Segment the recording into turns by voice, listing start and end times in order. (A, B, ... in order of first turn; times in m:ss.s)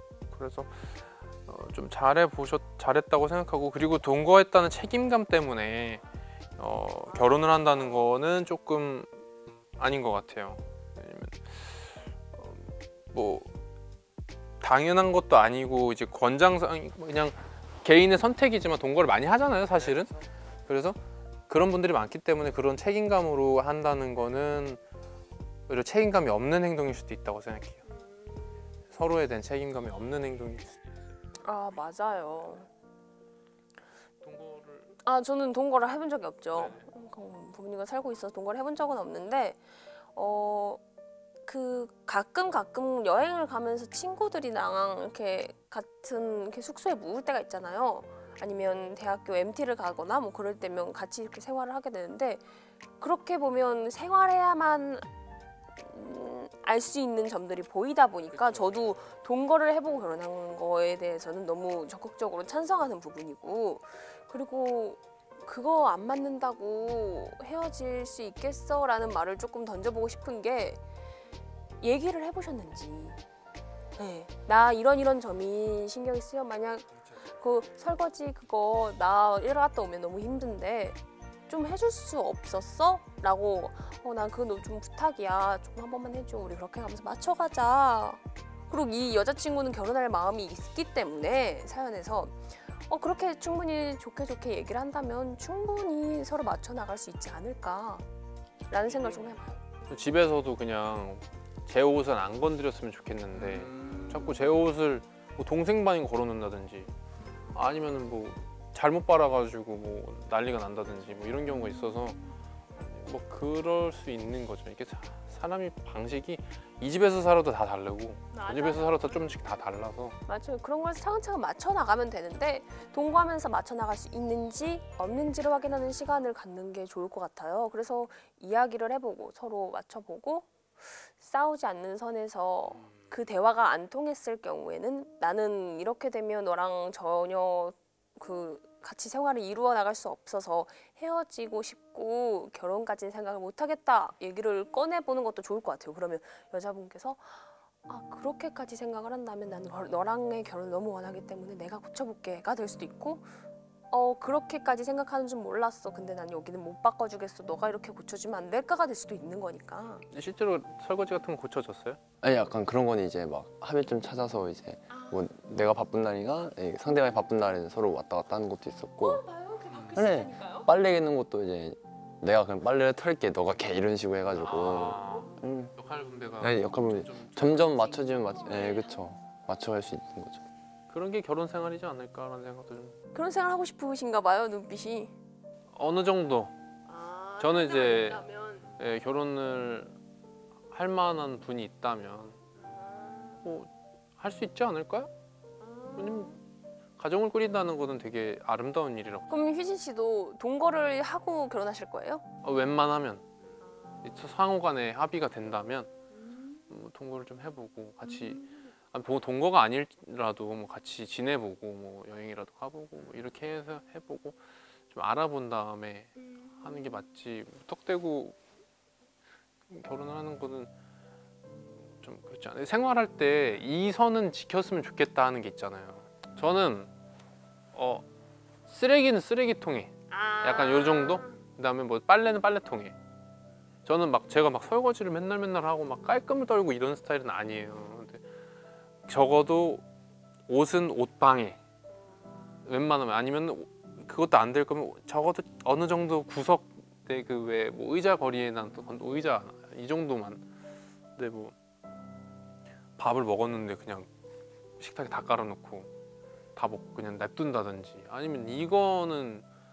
0:00.3-0:06.0 A
0:06.6-0:09.1 A
0:07.1-0:08.1 B
0:09.8-0:13.5 A
0:14.6-0:20.1 A
0:20.7-0:21.0 A
0:21.5-0:24.8 A
0:25.7-0:27.8 A
0:27.9-0:28.7 B
0:28.9-0:30.8 A
0:31.4-0:32.7 B
0:34.2-0:35.0 A
0:35.0-0:39.6 B
0:36.5-0:36.9 A
0:40.1-0:40.8 B
0:41.4-0:52.4 B
0:53.0-0:55.1 B
0:55.8-1:10.8 B
0:58.3-0:59.1 A
1:11.8-1:13.2 B
1:14.0-1:38.0 B
1:38.7-1:39.6 B
1:39.9-1:46.9 A
1:47.5-1:52.2 A
1:52.7-2:00.2 A
1:58.3-1:59.3 B
2:00.2-2:33.3 B
2:33.9-2:40.1 B
2:40.1-2:42.0 A
2:42.2-2:49.2 C
2:44.9-2:45.2 B
2:49.0-2:50.7 B
2:49.7-2:50.0 A
2:49.9-2:55.7 C
2:54.3-2:58.2 A
2:56.4-3:00.4 C
2:58.2-2:59.0 B
3:00.9-3:03.0 A
3:03.1-3:05.1 B
3:05.7-3:06.5 A
3:06.8-3:08.7 B
3:07.4-3:08.2 A
3:08.8-3:09.9 A
3:10.7-3:12.4 A
3:12.6-3:13.4 B
3:13.4-3:15.1 A
3:15.6-3:16.4 B
3:16.0-3:16.3 A
3:17.0-3:19.3 A
3:19.3-3:22.2 B
3:22.4-3:23.2 A
3:23.6-3:24.0 B
3:24.0-3:25.9 A
3:26.1-3:26.6 B
3:26.7-3:34.4 A
3:28.0-3:28.6 B
3:34.9-3:38.4 A
3:39.7-3:40.7 A
3:41.9-3:46.9 A
3:47.7-3:48.0 A
3:48.7-3:53.0 A
3:50.1-3:51.4 B
3:53.8-3:58.2 A
3:59.1-3:59.8 A
4:00.5-4:01.6 A
4:02.6-4:10.4 A
4:11.2-4:11.5 A
4:13.0-4:14.1 A
4:14.8-4:15.9 A
4:16.5-4:19.4 A